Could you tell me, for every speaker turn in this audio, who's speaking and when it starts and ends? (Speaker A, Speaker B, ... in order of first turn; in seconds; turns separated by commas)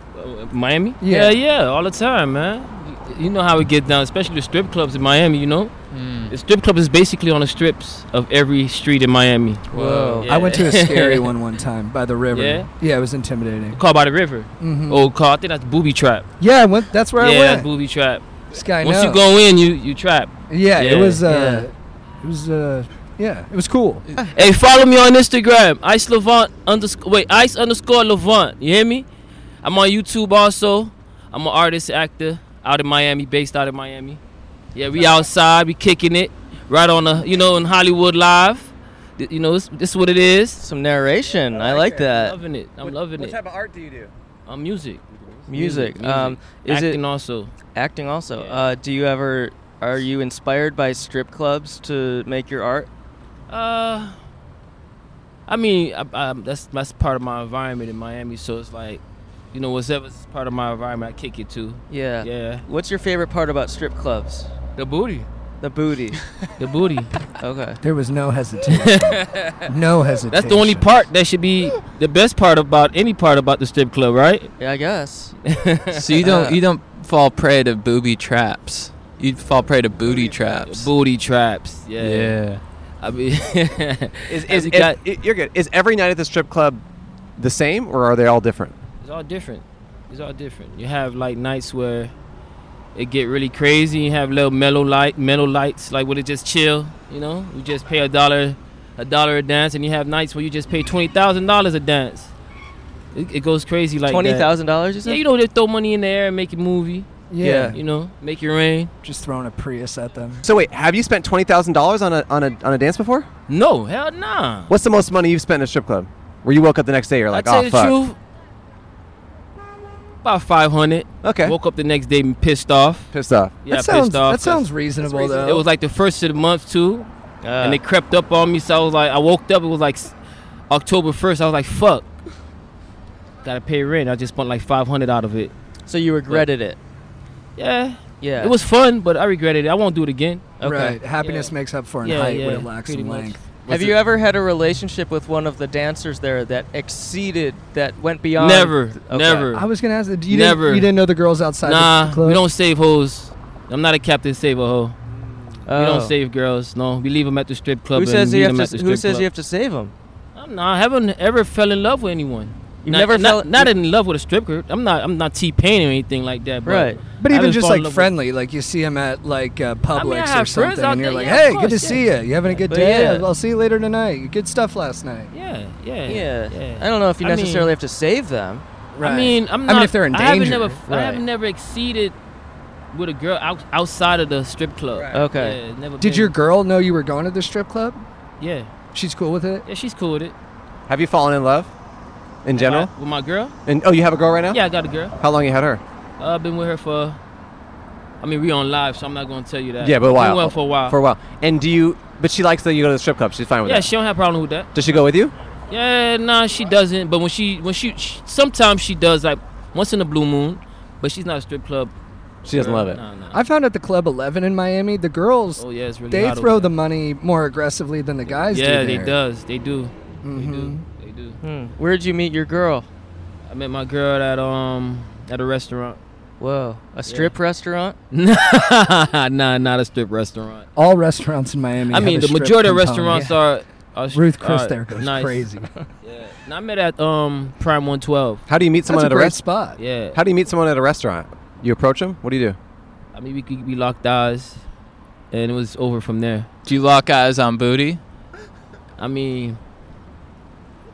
Speaker A: 0.1-5.7, Speaker B: 1.0-1.4, Speaker C: 5.9-6.3, Speaker A: 6.3-11.3, Speaker D: 9.7-10.3, Speaker B: 10.2-13.8, Speaker A: 12.3-12.7, Speaker A: 13.7-16.3, Speaker B: 14.6-15.1, Speaker B: 16.4-17.7, Speaker A: 17.1-21.7, Speaker B: 18.5-19.2, Speaker B: 20.5-24.0, Speaker A: 24.3-29.1, Speaker A: 29.6-34.2, Speaker A: 34.7-40.6, Speaker D: 40.6-42.4, Speaker E: 41.5-42.1, Speaker A: 42.0-43.4, Speaker E: 42.8-44.1, Speaker A: 44.5-47.5, Speaker D: 45.5-47.0, Speaker D: 47.7-52.9, Speaker A: 48.3-48.6, Speaker A: 53.5-54.2, Speaker A: 55.5-62.6, Speaker D: 61.9-64.5, Speaker A: 64.8-65.3, Speaker D: 65.6-66.2, Speaker A: 66.6-67.1, Speaker D: 67.4-67.8, Speaker B: 67.8-70.9, Speaker A: 68.7-69.7, Speaker A: 70.3-74.5, Speaker D: 74.6-75.3, Speaker A: 75.4-76.2, Speaker C: 75.9-80.9, Speaker D: 76.2-76.6, Speaker A: 80.0-82.4, Speaker C: 82.0-82.6, Speaker A: 83.0-85.0, Speaker E: 84.3-86.8, Speaker E: 87.4-88.8, Speaker A: 89.0-92.1, Speaker A: 92.9-102.3, Speaker A: 103.1-104.5, Speaker D: 104.0-105.2, Speaker A: 105.0-108.9, Speaker B: 107.3-107.8, Speaker D: 107.4-107.8, Speaker B: 109.0-110.4, Speaker E: 110.4-113.3, Speaker A: 113.5-114.7, Speaker E: 114.7-118.0, Speaker A: 117.3-118.2, Speaker A: 120.2-123.1, Speaker E: 121.2-121.6, Speaker E: 123.1-123.6, Speaker A: 123.6-127.1, Speaker B: 123.7-125.6, Speaker D: 127.4-127.8, Speaker A: 127.6-130.2, Speaker A: 130.7-132.1, Speaker A: 133.4-135.5, Speaker D: 135.9-136.8, Speaker A: 137.6-140.6, Speaker D: 138.2-138.5, Speaker D: 140.6-141.0, Speaker B: 140.6-143.4, Speaker A: 141.2-143.4, Speaker E: 143.6-143.9, Speaker D: 143.7-149.5, Speaker A: 148.4-149.7, Speaker B: 149.5-152.4, Speaker A: 150.3-150.9, Speaker A: 151.6-154.9, Speaker D: 155.7-156.1, Speaker A: 155.7-159.3, Speaker D: 157.9-159.9, Speaker A: 160.3-168.1, Speaker D: 162.8-163.7, Speaker D: 166.6-167.0, Speaker B: 167.2-175.3, Speaker A: 169.9-172.6, Speaker D: 172.7-173.3, Speaker A: 175.3-177.7, Speaker D: 176.1-178.6, Speaker B: 179.0-180.8, Speaker A: 179.0-182.2, Speaker D: 180.8-181.2, Speaker A: 182.9-186.3, Speaker D: 185.1-185.6, Speaker B: 186.0-188.0, Speaker A: 188.4-188.7, Speaker B: 188.9-189.7, Speaker A: 189.7-190.3, Speaker E: 190.9-191.7, Speaker E: 192.4-192.9, Speaker A: 192.5-193.5, Speaker E: 193.7-194.6, Speaker A: 194.5-195.2, Speaker E: 195.2-195.8, Speaker A: 196.2-197.2, Speaker A: 198.2-201.0, Speaker E: 199.8-203.9, Speaker A: 203.6-205.0, Speaker E: 204.7-205.3, Speaker A: 205.7-211.9, Speaker E: 212.4-213.0, Speaker A: 212.5-213.4, Speaker B: 213.3-219.2, Speaker A: 215.6-216.7, Speaker A: 218.3-221.4, Speaker B: 220.2-220.9, Speaker D: 221.4-222.9, Speaker A: 223.5-226.0, Speaker D: 226.4-228.0, Speaker A: 227.1-227.3, Speaker A: 228.1-230.7, Speaker B: 230.7-233.3, Speaker A: 231.9-235.5, Speaker B: 234.1-235.7, Speaker A: 236.0-238.4, Speaker E: 238.5-239.4, Speaker B: 238.9-239.8, Speaker A: 239.8-240.2, Speaker E: 240.1-242.6, Speaker A: 243.1-244.6, Speaker A: 245.3-246.5, Speaker C: 246.6-248.0, Speaker A: 249.0-249.6